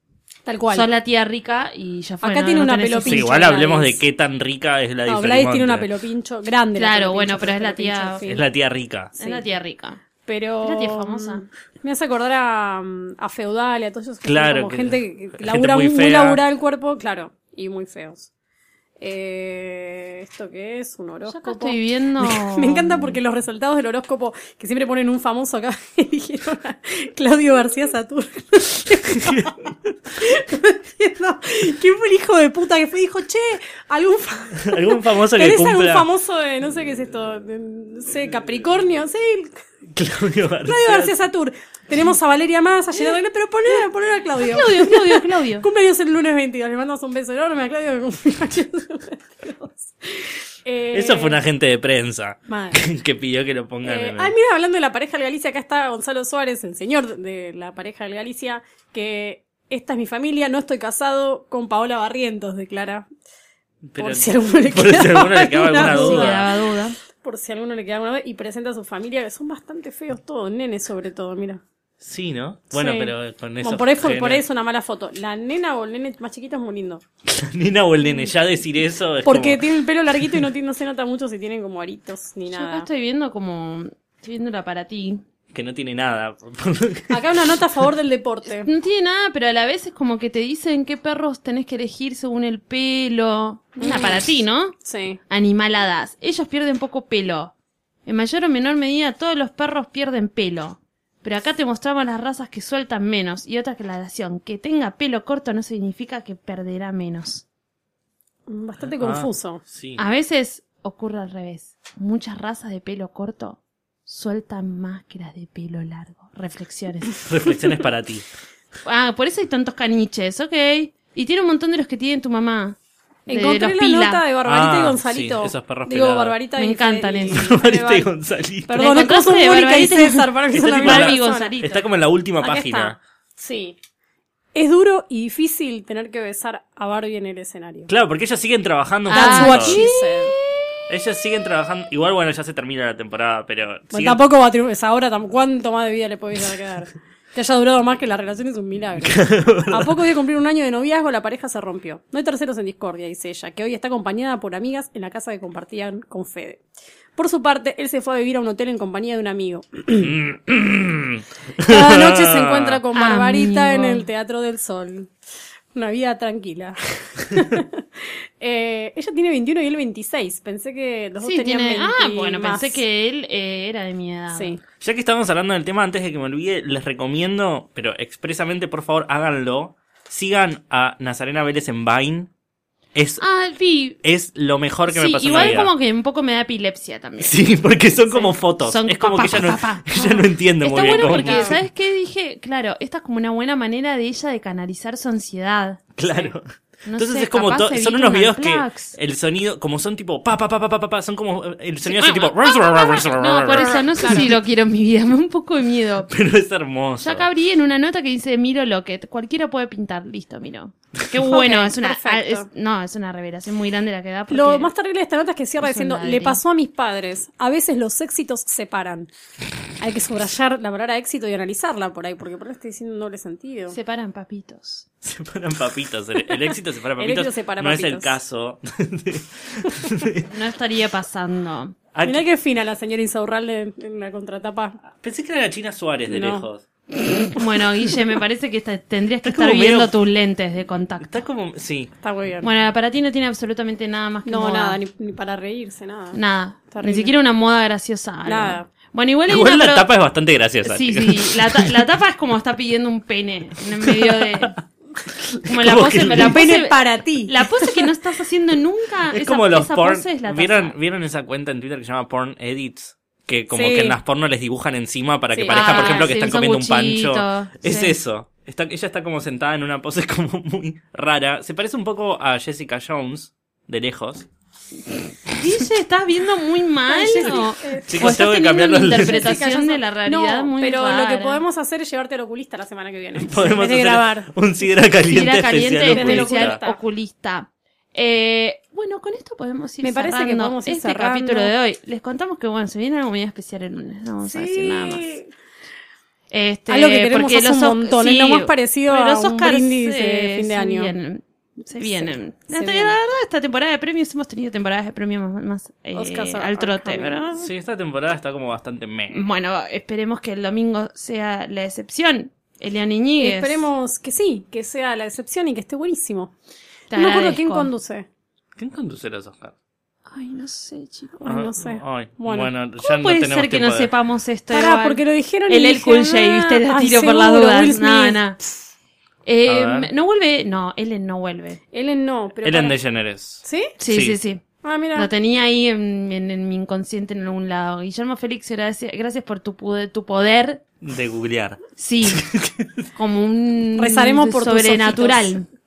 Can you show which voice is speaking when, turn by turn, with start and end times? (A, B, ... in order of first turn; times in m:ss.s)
0:00.4-0:00.9 A
0:00.7-0:03.3 B
0:02.2-0:04.0 A
0:03.0-0:05.9 C
0:05.0-0:08.4 A
0:06.7-0:08.3 B
0:08.2-0:09.1 C
0:09.2-0:09.4 A
0:09.2-0:10.0 B
0:10.2-0:18.3 A
0:10.6-0:11.4 B
0:14.2-0:16.4 C
0:19.0-0:39.6 A
0:21.2-0:23.2 B
0:34.6-0:36.1 C
0:39.9-0:41.1 C
0:40.7-0:51.4 A
0:44.4-0:45.6 B
0:50.9-0:54.3 C
0:52.5-0:52.8 A
0:53.8-1:03.1 A
1:03.9-1:06.5 C
1:04.0-1:06.7 A
1:05.8-1:07.0 B
1:07.2-1:11.6 A
1:12.0-1:14.4 C
1:12.7-1:17.0 A
1:17.2-1:19.6 C
1:19.2-1:22.9 A
1:20.2-1:20.5 C
1:22.5-1:25.2 B
1:25.5-1:27.6 C
1:27.1-1:28.7 A
1:28.4-1:34.8 B
1:33.8-1:34.3 A
1:34.8-1:35.2 A
1:35.3-1:37.5 B
1:38.0-1:47.4 B
1:48.5-1:49.6 A
1:48.9-1:50.0 C
1:50.0-1:57.2 B
1:57.2-1:58.2 C
1:58.8-2:02.8 B
2:03.3-2:04.2 B
2:03.3-2:08.1 A
2:04.4-2:06.4 C
2:06.6-2:07.5 B
2:07.3-2:09.2 C
2:08.7-2:11.6 A
2:08.8-2:11.8 B
2:10.5-2:13.0 C
2:12.4-2:13.8 A
2:14.5-2:17.9 A
2:17.9-2:19.8 C
2:19.1-2:20.3 B
2:19.1-2:20.3 A
2:20.9-2:24.2 C
2:23.9-2:36.6 A
2:29.0-2:30.0 C
2:37.2-2:40.1 A
2:39.9-2:42.8 C
2:41.6-2:45.1 A
2:42.9-2:44.1 B
2:45.7-2:52.8 A
2:51.2-2:54.6 B
2:54.3-2:54.6 A
2:54.8-3:02.3 C
3:02.9-3:03.2 C
3:03.2-3:04.0 B
3:04.0-3:05.7 C
3:04.9-3:07.4 B
3:07.2-3:11.6 C
3:08.0-3:16.0 B
3:10.8-3:11.6 A
3:16.0-3:23.8 C
3:16.8-3:19.0 B
3:21.8-3:26.1 B
3:23.5-3:24.3 A
3:26.1-3:27.3 C
3:27.0-3:34.7 B
3:31.2-3:32.4 A
3:34.3-3:39.1 A
3:35.6-3:36.4 B
3:39.8-3:43.8 A
3:43.7-3:44.8 B
3:45.0-3:50.3 C
3:47.0-3:48.2 A
3:50.2-3:51.8 B
3:51.9-3:52.2 C
3:52.0-3:54.8 A
3:55.0-3:56.6 C
3:56.1-3:56.4 A
3:57.2-4:01.1 B
3:59.2-3:59.9 C
4:01.0-4:01.9 C
4:02.0-4:02.5 A
4:02.4-4:04.8 B
4:04.2-4:06.2 A
4:06.1-4:09.9 B
4:06.7-4:07.1 A
4:08.2-4:08.7 A
4:09.3-4:11.7 C
4:10.6-4:14.6 B
4:13.8-4:14.6 C
4:15.2-4:16.6 C
4:15.4-4:20.7 B
4:16.2-4:17.8 A
4:19.1-4:34.3 C
4:23.5-4:24.0 A
4:25.3-4:26.1 A
4:25.5-4:28.0 B
4:35.3-4:41.4 B
4:36.9-4:44.3 A
4:37.9-4:39.4 C
4:43.2-4:46.6 C
4:45.1-4:55.1 B
4:45.8-4:46.8 A
4:49.8-4:51.5 A
4:54.2-4:55.3 A
4:56.3-5:07.3 B
4:56.7-5:00.9 A
5:01.8-5:02.9 A
5:05.9-5:07.5 A
5:07.4-5:09.2 C
5:09.1-5:13.6 B
5:13.2-5:16.3 A
5:16.9-5:17.7 B
5:16.9-5:18.0 A
5:18.6-5:19.5 C
5:20.1-5:21.2 B
5:21.2-5:22.5 A
5:21.2-5:23.9 C
5:22.8-5:28.4 B
5:24.5-5:28.3 A
5:29.2-5:31.6 B
5:29.5-5:29.9 C
5:31.7-5:32.8 A
5:32.4-5:34.2 C
5:33.4-5:33.7 A
5:33.8-5:34.4 B
5:34.6-5:35.1 A
5:34.9-5:40.6 B
5:40.8-5:42.7 C
5:41.8-5:42.2 B
5:42.9-5:45.5 B
5:43.8-5:45.4 A